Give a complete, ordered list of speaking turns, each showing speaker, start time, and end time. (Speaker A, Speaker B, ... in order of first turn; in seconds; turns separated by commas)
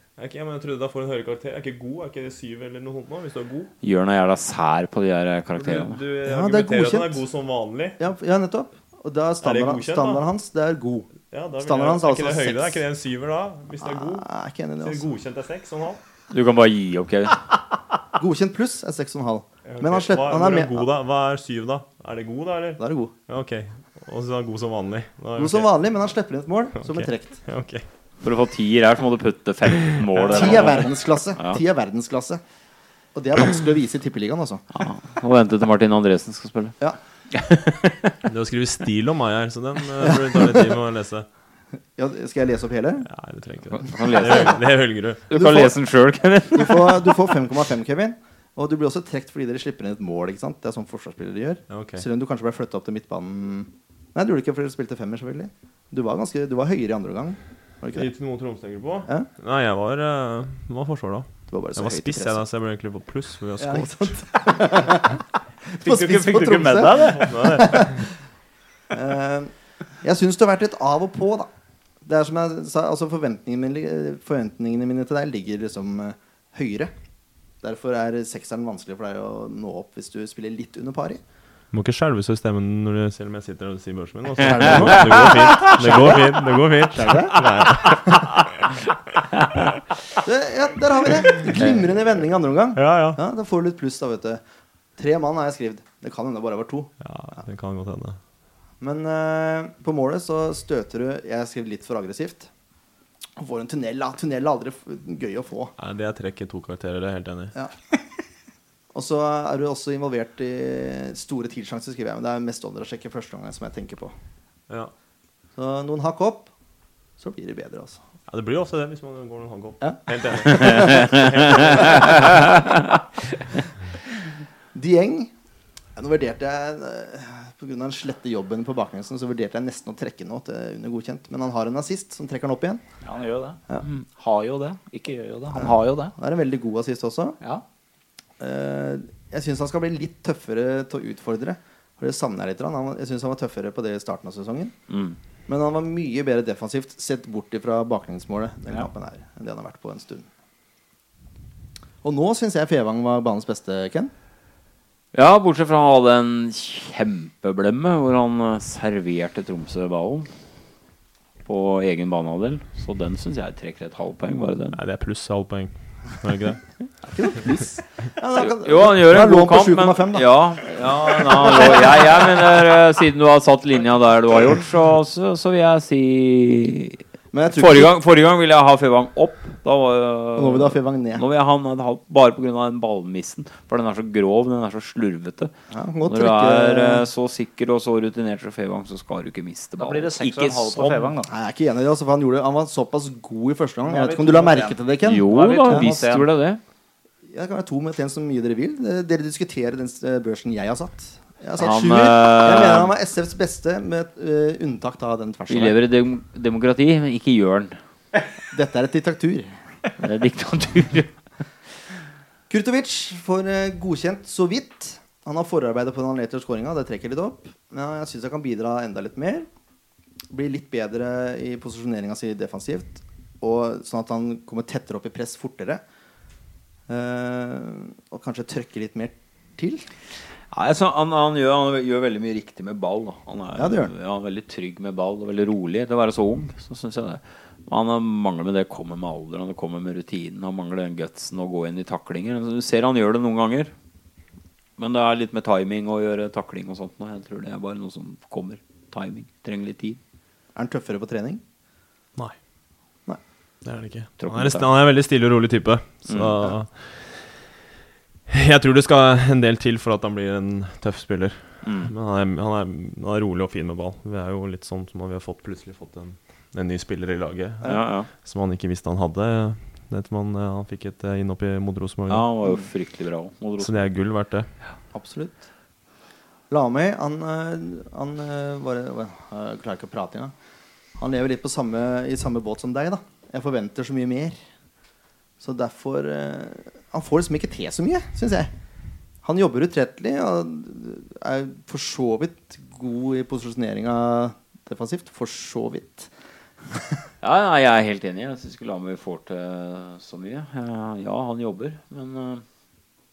Speaker A: 0.2-3.7, Speaker B: 3.8-6.0, Speaker A: 5.6-8.0, Speaker C: 6.3-7.2, Speaker C: 8.0-12.8, Speaker A: 9.4-10.2, Speaker A: 11.3-14.3, Speaker C: 13.8-15.0, Speaker A: 14.8-16.0, Speaker B: 16.3-17.5, Speaker C: 18.1-20.9, Speaker A: 19.7-25.7, Speaker C: 22.8-23.1, Speaker C: 25.4-27.4, Speaker A: 26.8-27.9, Speaker B: 28.2-31.6, Speaker A: 30.2-30.6, Speaker C: 30.3-32.4, Speaker C: 33.1-34.6, Speaker B: 34.7-36.8, Speaker B: 37.3-38.2, Speaker A: 38.3-41.3, Speaker C: 40.1-40.6, Speaker C: 42.0-43.1, Speaker A: 43.0-45.2, Speaker B: 43.7-44.6, Speaker B: 45.3-47.3, Speaker C: 45.3-45.8, Speaker C: 46.5-58.1, Speaker A: 51.7-52.0, Speaker A: 57.9-64.2, Speaker C: 61.5-62.4, Speaker C: 63.6-68.1, Speaker D: 65.7-67.3, Speaker A: 67.1-68.0, Speaker C: 68.9-71.5, Speaker C: 72.0-76.9, Speaker C: 77.6-81.2, Speaker A: 81.7-88.8, Speaker C: 84.4-88.2, Speaker B: 84.4-86.3, Speaker C: 90.2-94.4, Speaker A: 92.8-93.2, Speaker C: 95.0-96.9, Speaker A: 97.0-98.2, Speaker C: 98.8-102.5, Speaker C: 103.4-105.7, Speaker A: 105.8-107.5, Speaker C: 108.9-114.1, Speaker C: 115.6-116.5, Speaker C: 117.2-118.0, Speaker A: 118.3-122.4, Speaker C: 119.8-122.1, Speaker C: 124.7-125.3, Speaker C: 126.0-132.8, Speaker D: 133.0-136.2, Speaker C: 135.5-137.4, Speaker C: 138.4-144.7, Speaker B: 144.9-145.2, Speaker C: 145.5-150.3, Speaker C: 152.0-154.1, Speaker B: 155.1-160.3, Speaker B: 161.4-164.8, Speaker A: 164.7-166.6, Speaker C: 167.0-172.4, Speaker B: 168.4-185.5, Speaker C: 177.3-177.9, Speaker C: 180.4-181.2, Speaker C: 185.7-187.1, Speaker B: 186.1-191.1, Speaker D: 189.8-191.3, Speaker C: 191.3-195.9, Speaker D: 193.9-196.3, Speaker B: 195.0-196.6, Speaker C: 197.3-205.8, Speaker B: 201.6-202.9, Speaker B: 205.5-207.8, Speaker C: 208.5-209.5, Speaker B: 210.0-211.1, Speaker C: 212.5-219.5, Speaker C: 220.3-225.8, Speaker C: 226.9-229.9, Speaker B: 230.5-243.7, Speaker C: 233.6-233.9, Speaker B: 244.8-250.0, Speaker C: 250.6-251.4, Speaker A: 253.6-257.4, Speaker B: 254.2-254.7, Speaker B: 256.1-256.4, Speaker A: 258.3-272.3, Speaker B: 261.6-261.9, Speaker B: 267.6-268.1, Speaker B: 272.1-273.9, Speaker A: 273.6-274.5, Speaker C: 274.9-275.4, Speaker C: 276.5-280.3, Speaker C: 281.0-284.4, Speaker C: 285.4-288.5, Speaker C: 289.2-296.1, Speaker C: 296.7-297.0, Speaker B: 297.2-302.4